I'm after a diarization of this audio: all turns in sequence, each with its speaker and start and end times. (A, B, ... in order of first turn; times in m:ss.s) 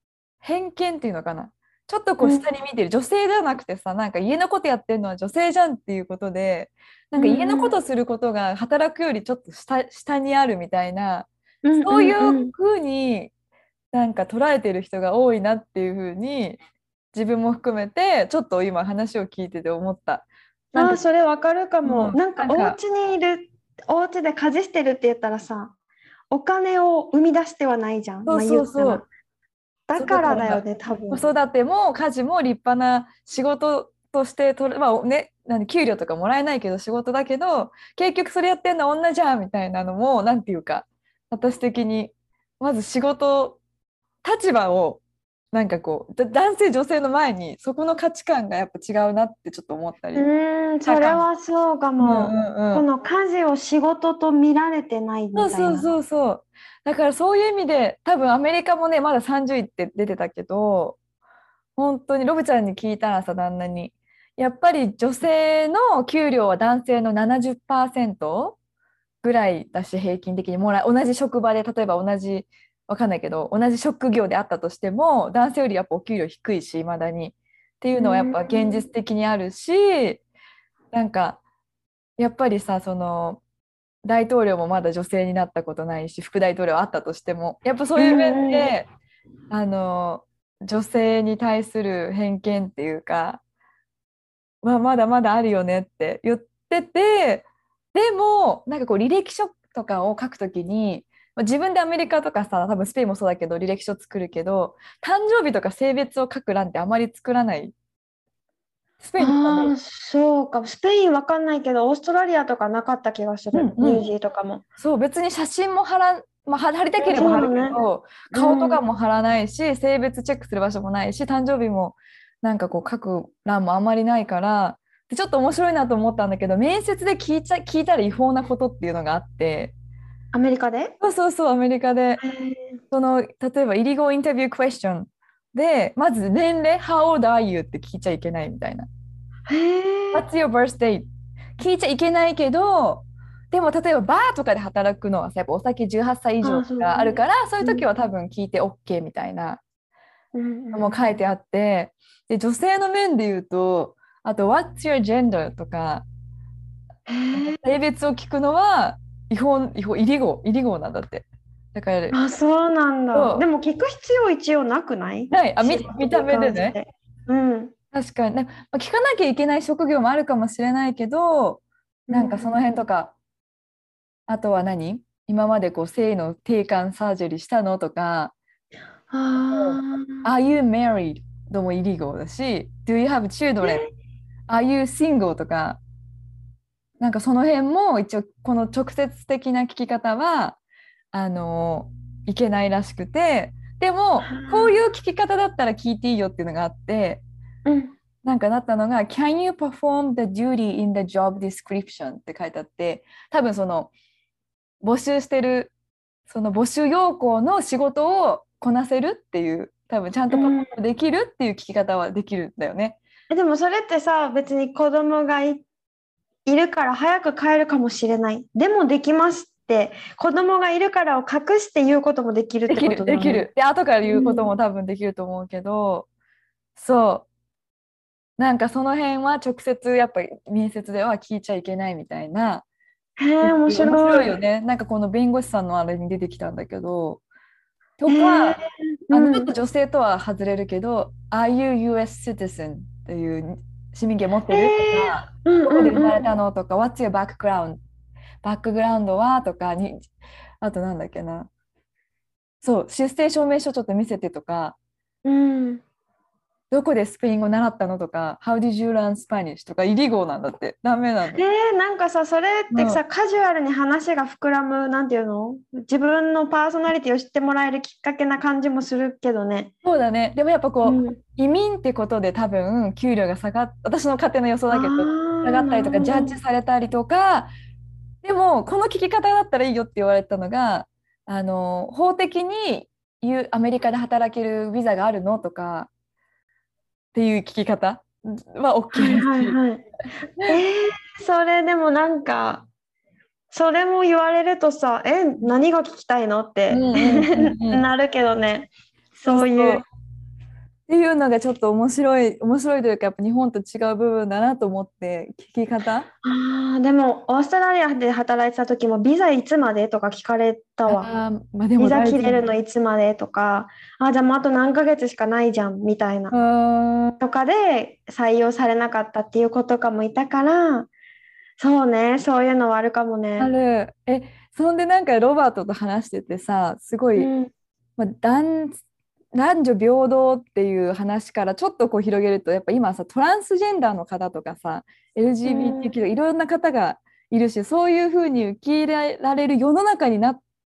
0:00.4-0:13.3 A
0:02.2-0:02.5 B
0:07.2-0:07.8 B
0:11.6-0:12.5 B
0:13.9-0:16.6 A
0:17.1-0:21.0 A
0:20.8-0:25.7 B
0:21.8-0:22.8 A
0:26.3-0:29.1 B
0:28.3-0:29.1 A
0:29.9-0:31.3 B
0:30.0-0:43.6 A
0:44.2-0:45.0 A
0:45.5-0:50.3 A
0:50.2-0:55.9 B
0:50.8-0:51.2 A
0:52.0-0:52.8 A
0:55.3-1:01.0 A
1:01.8-1:08.6 A
1:09.2-1:20.2 A
1:18.0-1:18.8 B
1:20.9-1:21.4 A
1:22.2-1:23.4 A
1:24.0-1:28.9 A
1:28.0-1:28.7 B
1:29.5-1:33.4 A
1:34.6-1:47.7 A
1:49.0-1:49.8 A
1:49.2-1:54.6 B
1:53.5-1:54.1 A
1:54.8-2:09.8 A
1:57.0-1:57.8 B
1:58.3-1:58.8 B
2:10.3-2:11.0 B
2:11.0-2:12.2 A
2:12.2-2:12.8 B
2:12.9-2:18.9 A
2:19.5-2:20.2 B
2:20.1-2:21.1 A
2:21.6-2:29.6 A
2:26.4-2:27.8 B
2:30.3-2:31.2 B
2:30.7-2:36.1 A
2:37.1-2:37.6 B
2:37.3-2:42.2 A
2:42.1-2:47.7 B
2:43.1-2:43.4 A
2:45.3-2:46.8 A
2:47.9-2:53.1 A
2:52.1-2:52.6 B
2:54.3-2:58.3 A
2:59.1-3:00.3 B
2:59.5-3:03.8 A
3:03.6-3:03.9 B
3:04.5-3:05.8 A
3:07.0-3:10.6 A
3:11.1-3:17.2 A
3:14.2-3:14.7 B
3:17.7-3:18.0 B
3:18.2-3:23.9 A
3:24.8-3:25.7 A
3:26.3-3:33.0 A
3:30.3-3:30.7 B
3:33.3-3:35.7 B
3:36.5-3:43.5 B
3:42.7-3:46.1 A
3:44.1-3:44.5 B
3:46.8-3:47.3 A
3:48.4-3:52.6 A
3:53.2-3:54.4 B
3:53.4-3:57.2 A
3:58.0-4:07.8 A
3:58.1-3:59.5 B
4:04.5-4:06.2 B
4:08.4-4:10.1 A
4:10.6-4:11.5 A
4:12.6-4:14.8 A
4:15.2-4:15.8 B
4:16.7-4:21.4 A
4:21.3-4:29.7 B
4:22.7-4:23.0 A
4:29.8-4:37.5 A
4:30.8-4:31.2 B
4:34.7-4:36.4 B
4:38.2-4:45.9 A
4:47.1-4:49.6 A
4:48.9-4:49.8 B
4:50.4-4:52.7 B
4:53.5-4:59.8 B
4:56.7-4:57.8 A
4:59.3-4:59.8 A
5:00.9-5:06.1 A
5:06.2-5:11.1 B
5:10.9-5:12.5 A
5:11.8-5:16.3 B
5:16.3-5:17.2 A
5:17.2-5:20.9 B
5:21.6-5:23.5 B
5:23.4-5:27.3 A
5:27.2-5:27.5 B
5:28.0-5:28.8 A
5:29.3-5:40.4 A
5:35.5-5:35.9 B